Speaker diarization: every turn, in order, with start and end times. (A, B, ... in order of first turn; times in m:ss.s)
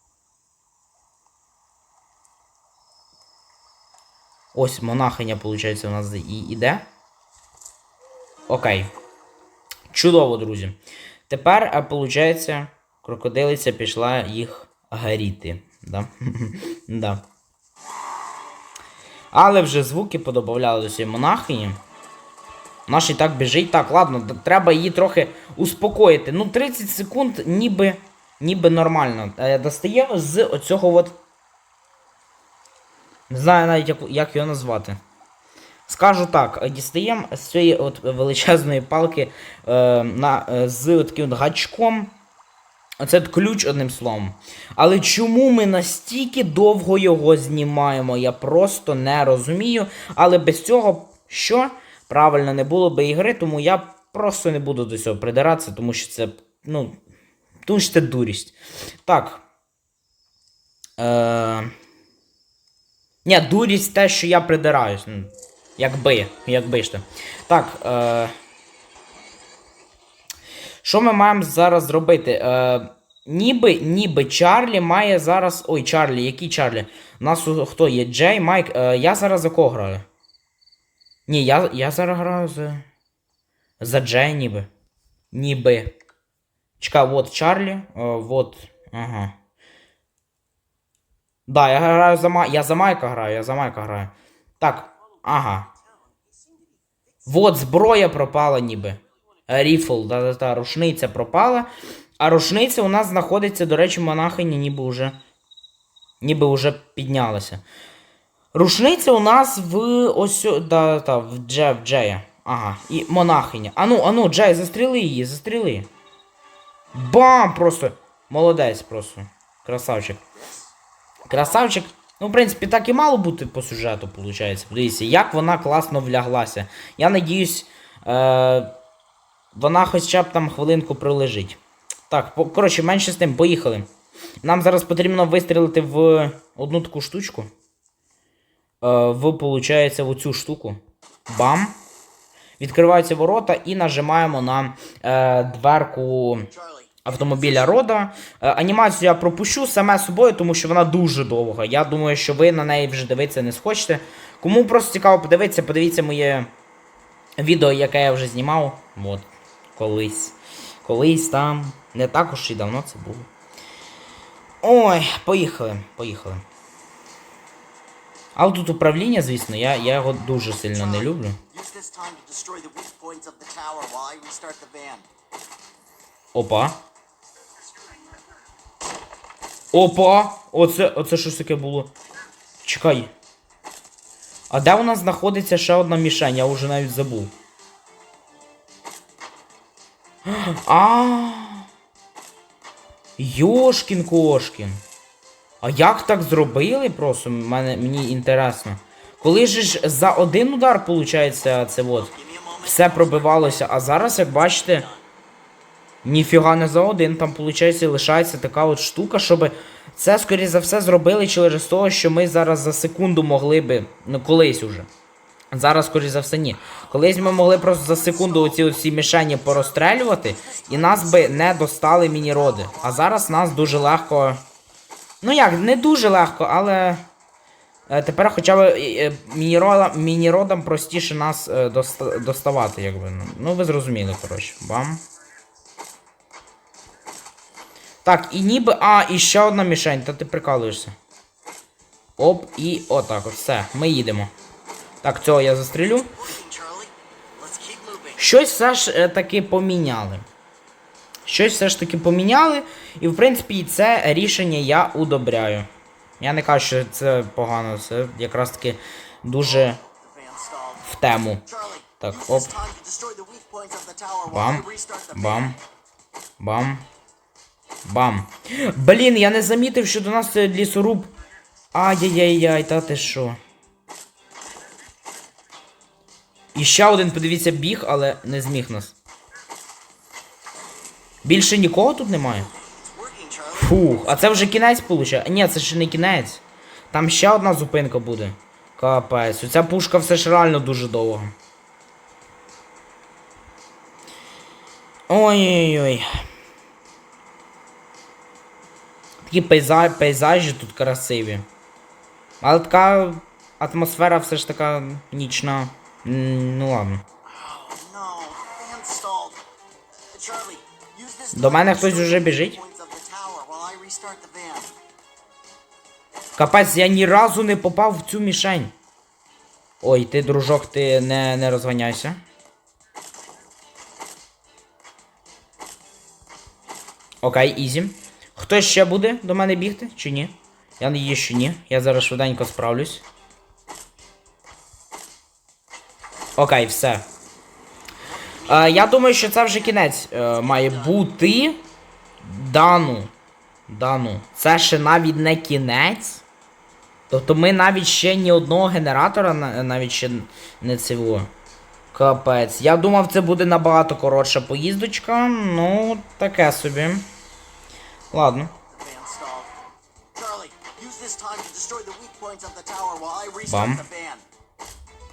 0:04.5-0:06.9 A
0:08.5-0:08.9 A
0:09.9-0:10.8 A
0:11.3-0:17.2 A
0:19.3-0:21.8 A
0:22.9-0:31.2 A
0:33.3-0:35.0 A
0:35.9-0:42.1 A
0:43.0-0:57.0 A
0:57.6-0:59.4 A
1:01.0-1:01.7 A
1:03.2-1:08.3 A
1:10.8-1:20.0 A
1:21.3-1:22.8 A
1:23.8-1:24.7 A
1:25.3-1:25.9 A
1:26.8-1:29.3 A
1:31.5-1:35.7 A
1:35.7-1:36.7 B
1:37.2-1:41.7 A
1:42.2-1:45.2 A
1:46.2-1:47.6 A
1:48.5-1:55.9 A
1:56.9-2:00.2 A
2:00.3-2:00.7 B
2:01.3-2:08.7 A
2:09.5-2:13.9 A
2:14.4-2:17.5 A
2:18.8-2:21.8 A
2:22.6-2:26.5 A
2:26.5-2:27.6 B
2:27.0-2:36.5 A
2:37.4-2:43.3 A
2:44.6-2:46.4 A
2:48.4-2:51.4 A
2:50.7-2:55.1 B
2:56.3-2:56.8 A
2:59.7-3:01.9 A
3:02.6-3:03.1 A
3:04.5-3:07.3 A
3:10.2-3:11.6 A
3:13.2-3:14.8 A
3:15.6-3:24.9 A
3:21.9-3:23.7 B
3:24.3-3:25.1 B
3:26.0-3:34.9 A
3:35.5-3:44.4 A
3:37.1-3:38.7 B
3:39.3-3:43.7 B
3:45.2-3:47.0 A
3:47.9-3:55.0 A
3:58.0-4:01.0 A
4:02.2-4:04.3 A
4:05.0-4:06.1 A
4:06.1-4:08.3 B
4:08.2-4:10.2 A
4:11.3-4:15.7 A
4:16.2-4:19.8 A
4:19.4-4:25.6 B
4:20.8-4:21.4 A
4:22.0-4:22.5 A
4:24.3-4:25.6 A
4:26.4-4:26.8 A
4:27.8-4:31.1 A
4:31.7-4:33.4 A
4:36.5-4:39.0 A
4:41.2-4:42.5 A
4:42.3-4:44.5 B
4:43.5-4:51.3 A
4:55.1-4:56.0 A
4:59.2-5:01.4 A
5:02.4-5:07.0 A
5:07.2-5:14.8 B
5:11.3-5:12.6 A
5:16.4-5:18.7 A
5:19.8-5:22.2 A
5:27.2-5:33.0 A
5:36.4-5:37.0 A
5:38.0-5:41.0 B
5:38.5-5:41.6 A
5:42.2-5:43.1 A
5:43.7-5:46.2 A
5:47.1-5:51.3 A
5:51.9-5:57.1 A
5:58.1-5:58.5 A
5:58.7-5:59.6 B
6:00.1-6:04.2 B
6:03.5-6:03.8 A